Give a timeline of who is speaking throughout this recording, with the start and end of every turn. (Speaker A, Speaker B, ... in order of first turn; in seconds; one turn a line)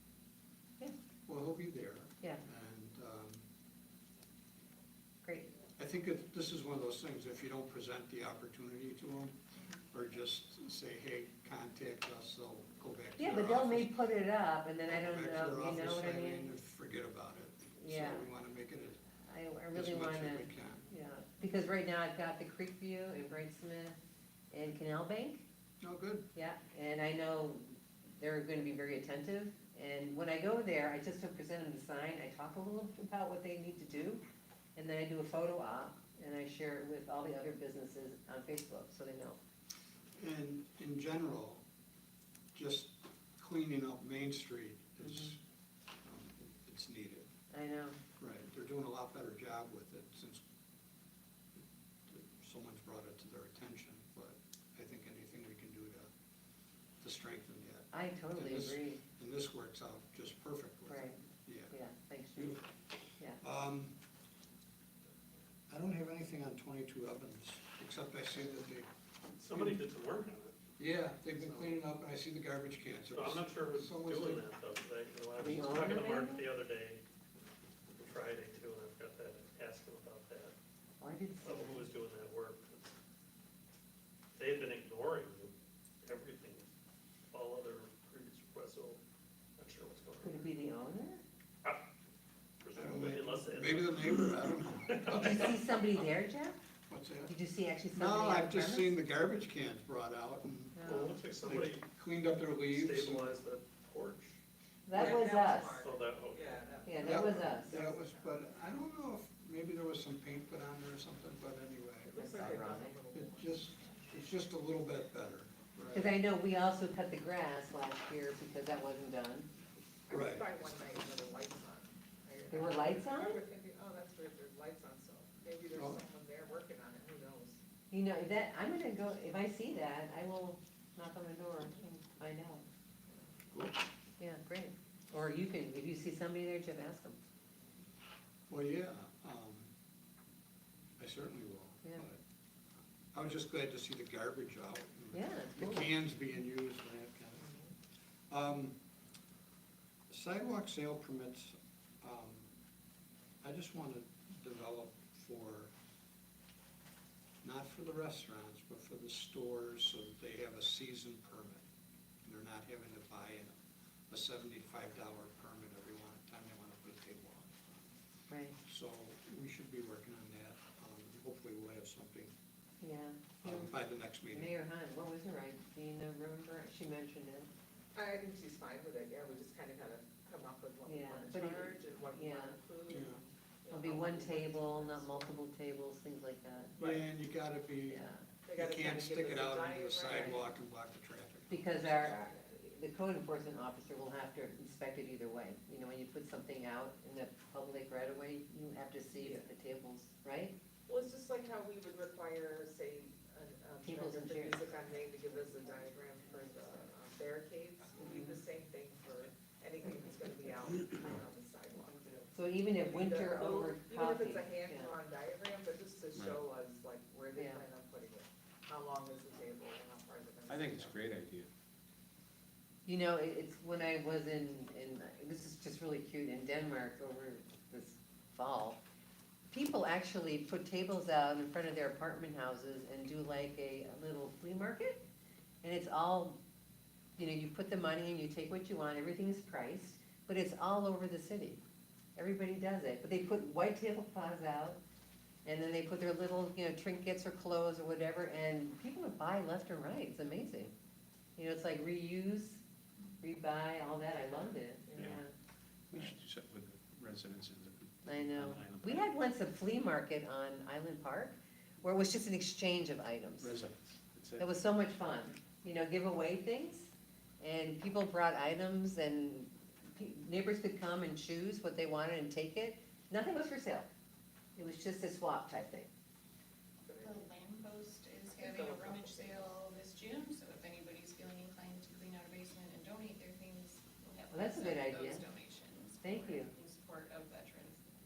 Speaker A: 1.3-3.5
Speaker B: 5.2-5.5
Speaker A: 5.8-13.9
Speaker B: 13.2-16.5
Speaker A: 14.9-19.0
Speaker B: 17.8-18.3
Speaker B: 19.2-24.0
Speaker A: 19.7-20.9
Speaker B: 24.5-25.5
Speaker A: 25.8-26.3
Speaker B: 26.4-34.2
Speaker B: 34.8-39.4
Speaker A: 40.2-41.6
Speaker A: 42.5-45.4
Speaker B: 45.0-45.3
Speaker A: 46.0-47.3
Speaker B: 47.5-48.0
Speaker A: 48.2-50.4
Speaker A: 52.1-56.1
Speaker A: 57.0-61.7
Speaker B: 57.9-59.0
Speaker B: 60.9-61.2
Speaker B: 61.7-62.6
Speaker A: 62.4-62.8
Speaker A: 63.4-64.0
Speaker A: 65.7-68.9
Speaker C: 69.4-70.5
Speaker A: 70.8-74.5
Speaker C: 73.1-77.0
Speaker B: 75.4-76.4
Speaker C: 77.9-80.5
Speaker B: 81.0-81.9
Speaker C: 81.4-83.0
Speaker C: 84.4-86.7
Speaker C: 87.3-89.0
Speaker C: 89.6-90.5
Speaker B: 90.2-91.2
Speaker C: 92.6-95.6
Speaker A: 92.8-95.6
Speaker B: 95.1-96.6
Speaker A: 96.9-97.4
Speaker B: 97.3-99.0
Speaker A: 97.9-103.4
Speaker B: 100.8-101.1
Speaker C: 100.8-101.9
Speaker C: 102.6-104.4
Speaker B: 104.9-105.8
Speaker D: 104.9-108.4
Speaker C: 105.1-106.8
Speaker B: 106.9-107.8
Speaker A: 107.0-116.2
Speaker D: 112.1-113.6
Speaker B: 112.1-113.0
Speaker B: 115.9-119.5
Speaker D: 120.1-127.6
Speaker A: 120.1-120.5
Speaker B: 122.5-123.4
Speaker B: 127.9-132.7
Speaker A: 133.5-133.8
Speaker B: 134.2-137.2
Speaker A: 138.5-139.7
Speaker A: 141.0-142.2
Speaker A: 143.1-147.5
Speaker B: 145.1-145.9
Speaker A: 148.3-148.8
Speaker A: 150.1-152.5
Speaker A: 153.4-155.7
Speaker A: 157.4-161.7
Speaker A: 162.2-163.5
Speaker A: 164.1-167.7
Speaker B: 168.3-168.6
Speaker A: 168.6-172.3
Speaker B: 172.8-173.7
Speaker A: 173.4-174.5
Speaker B: 174.3-177.5
Speaker D: 177.9-185.3
Speaker B: 180.9-182.6
Speaker A: 182.9-183.2
Speaker B: 183.7-186.7
Speaker D: 186.8-187.1
Speaker A: 186.8-192.2
Speaker B: 187.9-188.2
Speaker D: 188.5-190.4
Speaker B: 191.5-200.6
Speaker D: 200.9-221.0
Speaker B: 203.8-204.7
Speaker B: 208.0-208.4
Speaker B: 212.3-214.9
Speaker E: 216.2-216.4
Speaker B: 217.4-217.6
Speaker E: 220.5-221.5
Speaker B: 222.9-228.8
Speaker B: 229.5-235.0
Speaker B: 235.6-236.4
Speaker B: 237.2-241.6
Speaker B: 242.2-244.8
Speaker B: 245.4-250.7
Speaker B: 251.4-252.6
Speaker B: 253.2-255.3
Speaker D: 254.9-255.1
Speaker E: 255.0-255.2
Speaker E: 255.9-259.1
Speaker B: 258.1-263.6
Speaker E: 263.4-264.5
Speaker B: 264.4-273.9
Speaker B: 274.6-275.9
Speaker D: 276.8-277.3
Speaker F: 277.0-287.9
Speaker D: 278.4-279.6
Speaker B: 284.3-285.2
Speaker B: 286.0-286.5